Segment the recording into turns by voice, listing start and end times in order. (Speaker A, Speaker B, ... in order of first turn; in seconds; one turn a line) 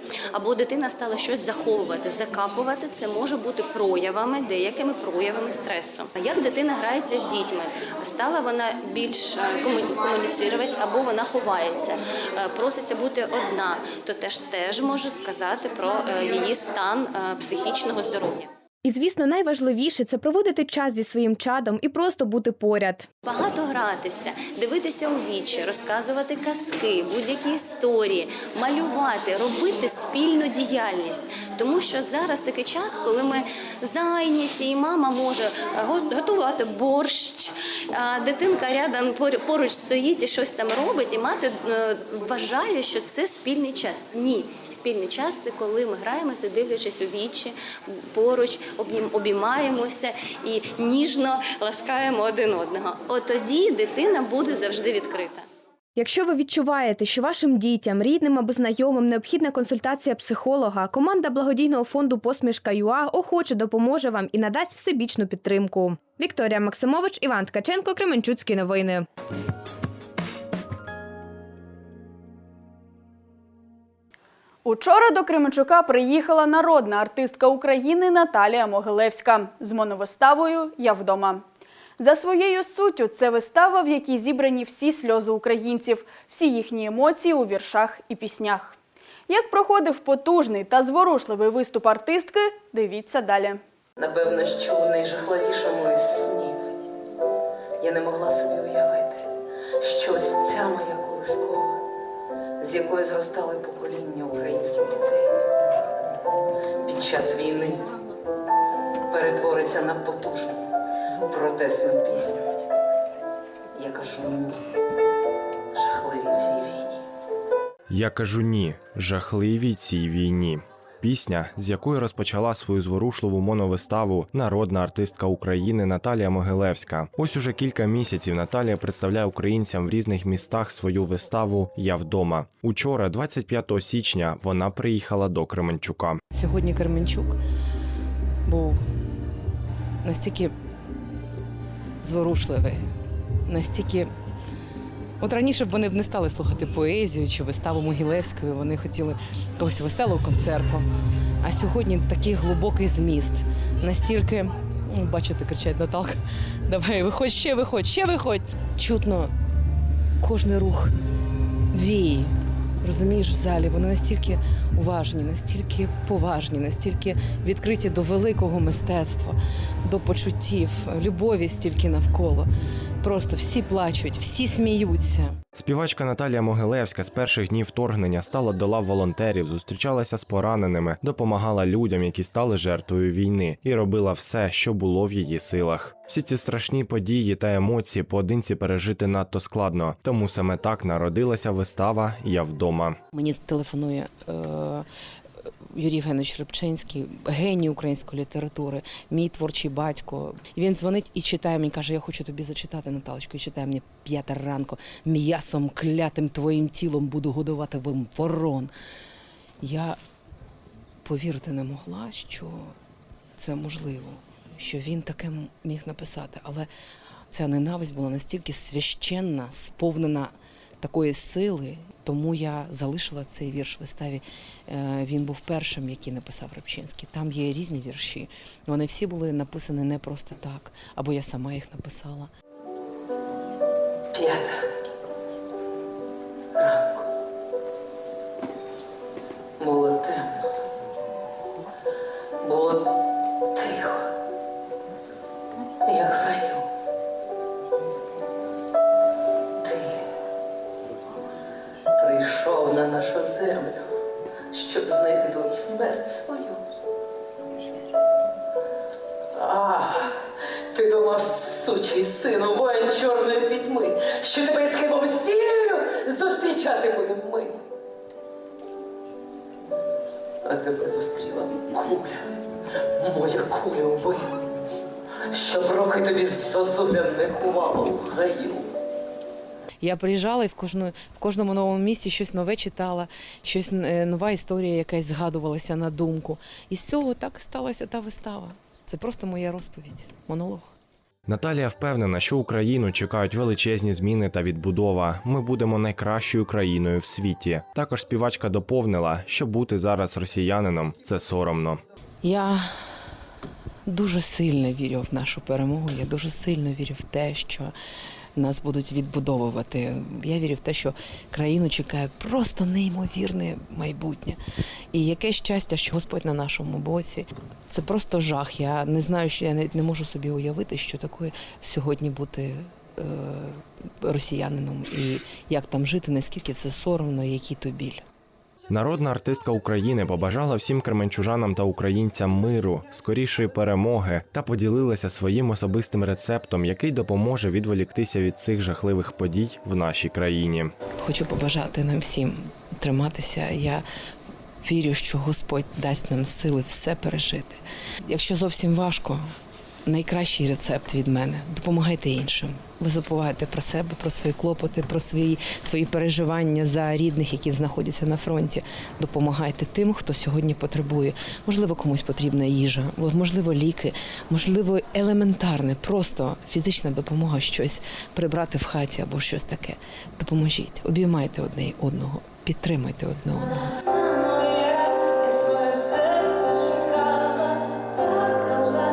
Speaker A: 0.3-18.5
Speaker B: 18.8-23.1
Speaker A: 23.2-55.5
Speaker B: 56.0-69.1
Speaker C: 74.7-81.4
Speaker C: 82.0-88.8
Speaker C: 89.3-93.6
Speaker D: 94.0-96.7
Speaker D: 97.8-101.8
Speaker D: 102.6-105.3
Speaker D: 106.8-107.9
Speaker D: 109.1-110.7
Speaker D: 111.3-112.5
Speaker D: 113.8-114.7
Speaker D: 115.7-117.0
Speaker E: 117.9-136.2
Speaker D: 136.3-137.4
Speaker D: 138.4-138.8
Speaker D: 140.0-140.5
Speaker D: 142.0-142.8
Speaker D: 143.5-144.1
Speaker D: 145.2-150.9
Speaker D: 151.4-159.3
Speaker D: 160.2-160.9
Speaker D: 161.7-172.5
Speaker D: 173.0-175.4
Speaker E: 175.6-193.0
Speaker D: 193.1-194.9
Speaker D: 195.7-208.7
Speaker D: 209.6-210.0
Speaker D: 211.0-212.8
Speaker D: 213.4-216.7
Speaker D: 217.3-232.3
Speaker D: 234.1-234.6
Speaker D: 236.6-237.1
Speaker D: 239.6-240.5
Speaker D: 242.4-244.1
Speaker D: 245.8-246.7
Speaker D: 249.6-250.0
Speaker D: 251.9-253.9
Speaker D: 254.5-256.6
Speaker D: 259.3-260.2
Speaker D: 260.7-267.6
Speaker D: 270.4-272.3
Speaker D: 273.0-274.4
Speaker D: 275.3-278.7
Speaker D: 279.8-290.7
Speaker E: 291.3-301.8
Speaker D: 302.2-302.7
Speaker D: 303.9-307.7
Speaker D: 308.4-314.4
Speaker D: 314.9-328.0
Speaker E: 328.7-340.7
Speaker D: 341.0-343.9
Speaker D: 344.6-349.3
Speaker D: 349.9-373.7
Speaker D: 375.4-377.1
Speaker D: 378.5-378.8